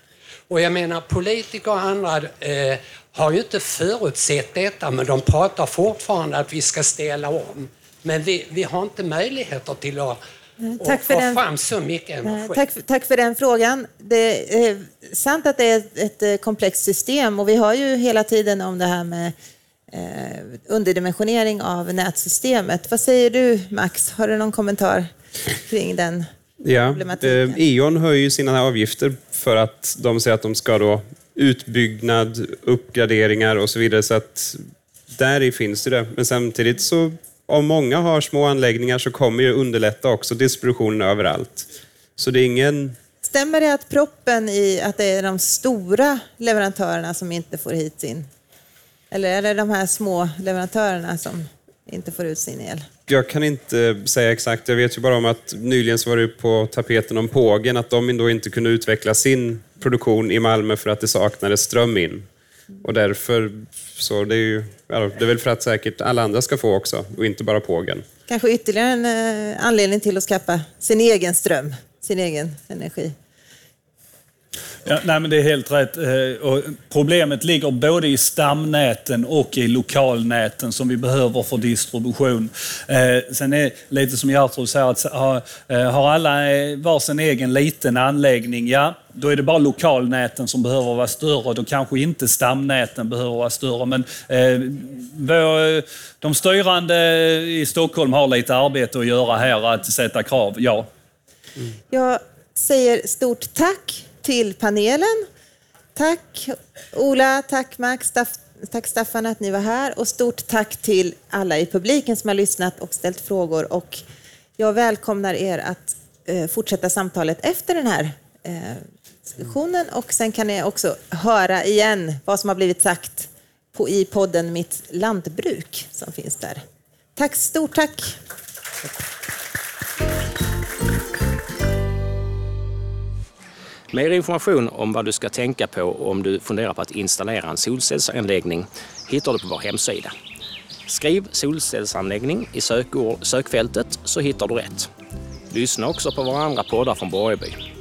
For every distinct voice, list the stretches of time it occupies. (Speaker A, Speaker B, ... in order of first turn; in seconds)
Speaker A: 0.5-10.2, 10.8-12.7
Speaker B: 10.6-11.4, 12.3-19.3, 19.9-26.3, 26.9-27.6, 43.2-48.3, 49.1-52.9, 68.3-73.1, 101.9-105.2, 106.0-114.0, 114.6-126.6, 127.2-128.2
Speaker C: 26.6-34.6, 35.1-43.0, 53.1-62.3, 62.8-68.0
Speaker D: 74.8-100.9
Speaker E: 133.9-140.1, 140.9-144.9, 145.5-147.6